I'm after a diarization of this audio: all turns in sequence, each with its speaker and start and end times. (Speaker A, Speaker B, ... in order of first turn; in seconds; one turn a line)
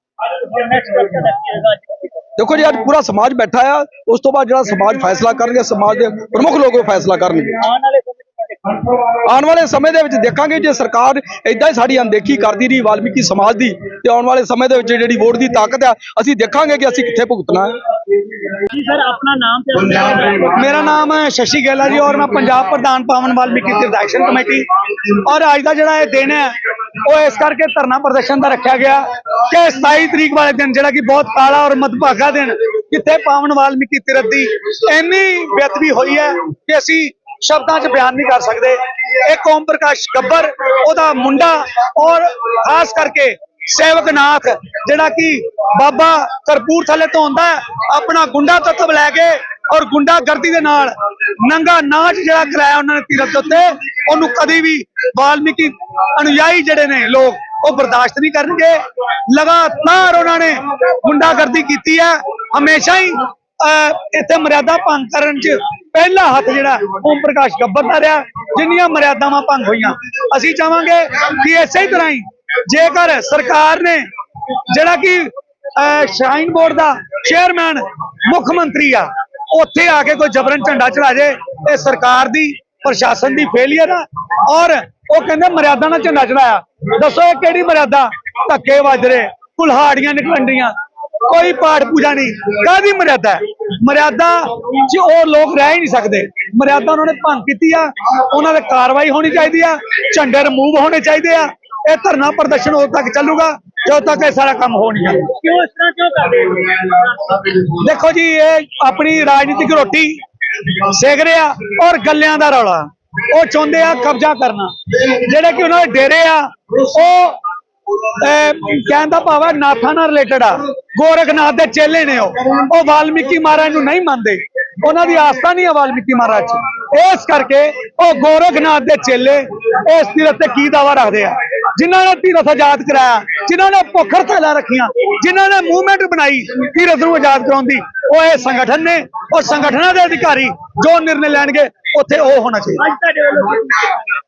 Speaker A: 0.3-2.3
Speaker B: 2.4-7.6
Speaker A: 7.6-9.0
Speaker B: 9.2-17.8
Speaker A: 18.7-20.8
Speaker C: 20.5-74.0
Speaker C: 74.6-90.7
Speaker C: 91.2-105.3
Speaker A: 105.3-107.4
Speaker C: 107.7-110.1
Speaker C: 110.8-117.4
Speaker C: 118.1-142.9
Speaker A: 142.8-144.0